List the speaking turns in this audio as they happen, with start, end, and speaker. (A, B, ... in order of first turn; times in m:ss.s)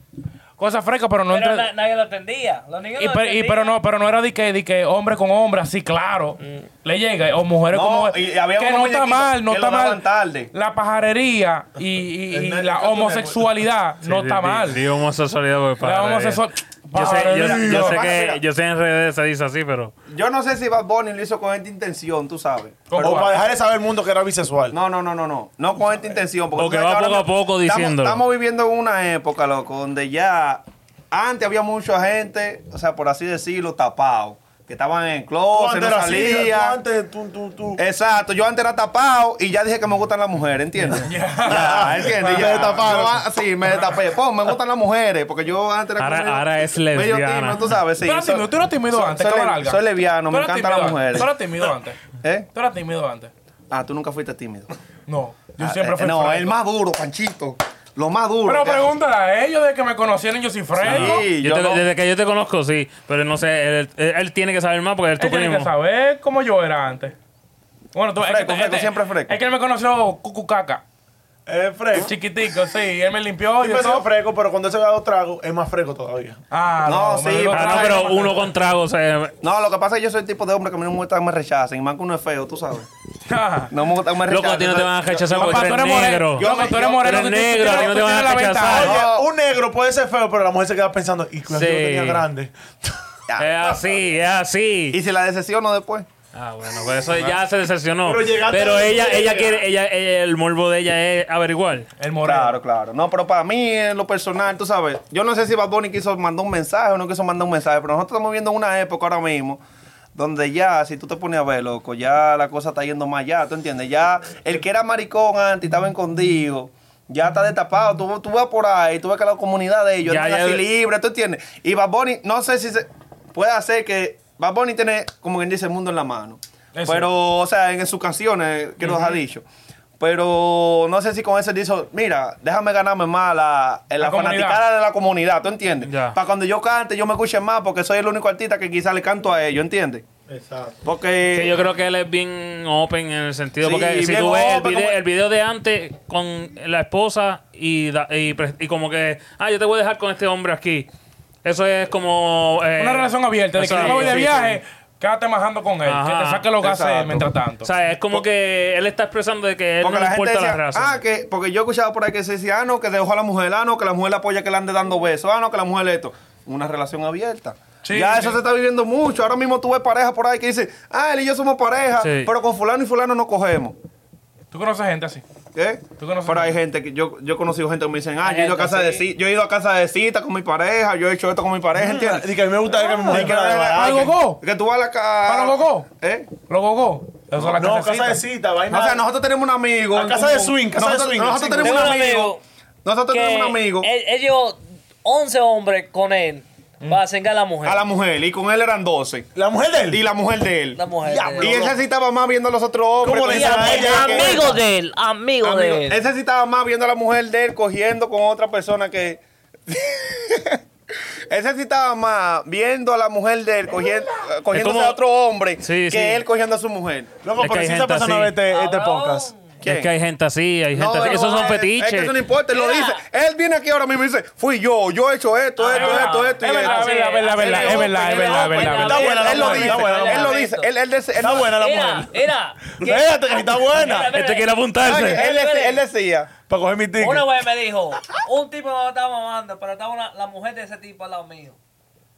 0:00.6-0:01.7 A
0:01.3-0:03.8 B
0:03.0-0:14.8 A
0:07.7-0:10.5 C
0:12.3-0:13.5 D
0:14.0-0:16.4 E
0:15.8-0:18.0 A
0:16.9-0:19.9 E
0:17.3-0:18.4 C
0:20.1-0:23.1 C
0:22.9-0:23.3 A
0:23.0-0:24.8 D
0:24.7-0:36.8 C
0:26.6-0:28.2 E
0:35.5-0:37.8 D
0:37.8-0:51.3 C
0:41.0-0:42.9 A
0:41.5-0:43.2 D
0:46.0-0:47.7 E
0:48.0-0:52.0 A
0:52.2-0:52.5 C
0:52.5-0:53.3 A
0:53.7-0:54.7 C
0:55.1-0:56.6 A
0:55.6-0:58.9 C
0:58.4-1:01.2 A
1:00.8-1:01.8 C
1:00.9-1:05.7 E
1:05.2-1:07.1 A
1:07.9-1:10.8 A
1:08.2-1:09.4 C
1:11.5-1:12.1 D
1:12.0-1:14.1 A
1:13.6-1:16.4 D
1:16.5-1:18.4 A
1:16.8-1:18.1 C
1:17.5-1:19.3 E
1:18.0-1:18.4 D
1:19.4-1:22.9 C
1:23.3-1:23.7 A
1:23.7-1:27.2 C
1:24.3-1:29.0 E
1:25.4-1:28.9 A
1:28.7-1:32.9 D
1:28.8-1:29.3 C
1:31.5-1:32.3 E
1:33.3-1:34.0 C
1:33.4-1:35.0 E
1:34.9-1:36.1 C
1:36.3-1:41.9 E
1:38.0-1:39.6 D
1:42.0-1:42.6 A
1:42.2-1:49.6 C
1:50.2-2:09.4 C
2:00.1-2:00.6 E
2:06.8-2:07.1 A
2:10.0-2:20.1 C
2:14.0-2:14.6 A
2:15.8-2:16.2 E
2:20.3-2:20.8 D
2:20.8-2:21.6 C
2:21.3-2:30.9 E
2:23.6-2:25.0 C
2:31.4-2:34.3 E
2:32.8-2:37.7 A
2:33.7-2:34.6 C
2:35.8-2:36.5 E
2:36.6-2:37.3 C
2:37.6-2:41.0 E
2:39.8-2:53.8 C
2:47.8-2:48.4 A
2:52.0-2:52.3 E
2:54.5-2:55.2 A
2:55.6-3:06.3 C
2:56.0-2:56.6 A
2:58.2-2:59.1 B
3:01.8-3:04.1 D
3:03.7-3:04.4 A
3:05.3-3:05.9 A
3:06.5-3:08.2 A
3:07.5-3:09.0 D
3:08.7-3:13.9 C
3:09.9-3:12.0 D
3:11.6-3:12.4 B
3:13.1-3:17.8 B
3:17.6-3:19.3 C
3:19.4-3:20.0 D
3:19.9-3:20.8 C
3:20.8-3:21.6 B
3:21.0-3:21.8 D
3:21.4-3:24.6 C
3:23.0-3:24.6 D
3:23.2-3:26.0 B
3:25.4-3:37.1 C
3:34.5-3:35.0 E
3:35.6-3:36.2 E
3:37.2-3:39.3 D
3:37.4-3:38.4 E
3:38.5-3:39.4 B
3:39.6-3:39.9 C
3:39.6-3:42.1 E
3:40.7-3:51.6 C
3:41.1-3:41.5 B
3:42.5-3:43.0 B
3:45.6-3:50.7 B
3:45.7-3:49.7 A
3:48.6-3:50.4 D
3:51.2-3:52.2 D
3:51.5-3:55.8 B
3:52.7-3:54.1 D
3:54.1-3:55.2 E
3:54.8-3:56.3 C
3:56.5-3:57.3 D
3:57.0-4:01.6 B